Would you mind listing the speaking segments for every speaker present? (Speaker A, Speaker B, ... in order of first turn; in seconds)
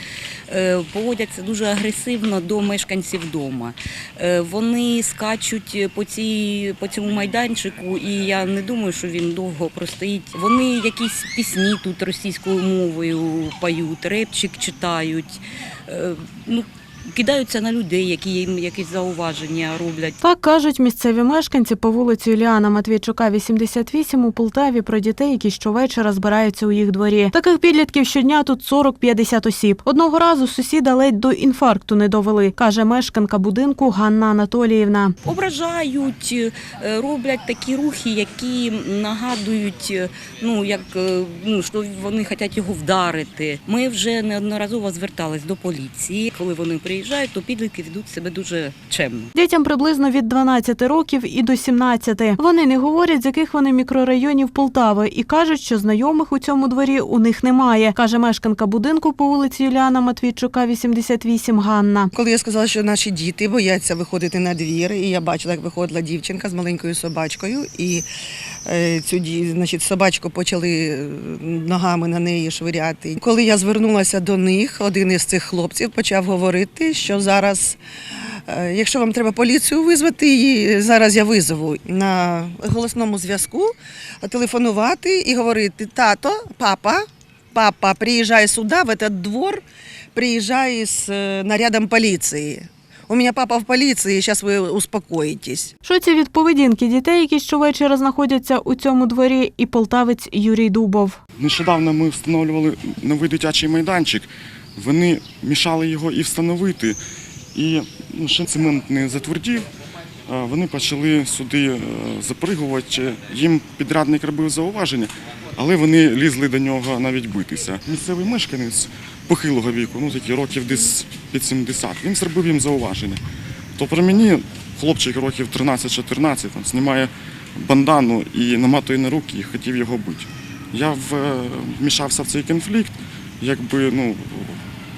Speaker A: 0.5-20.2, 35.2-49.3
Speaker B: 20.2-35.1, 49.4-62.1, 95.8-101.2
Speaker C: 62.1-68.1, 68.7-77.8, 78.5-89.6, 90.1-95.7
Speaker D: 101.4-107.0, 107.5-109.7, 110.3-123.2, 123.8-134.6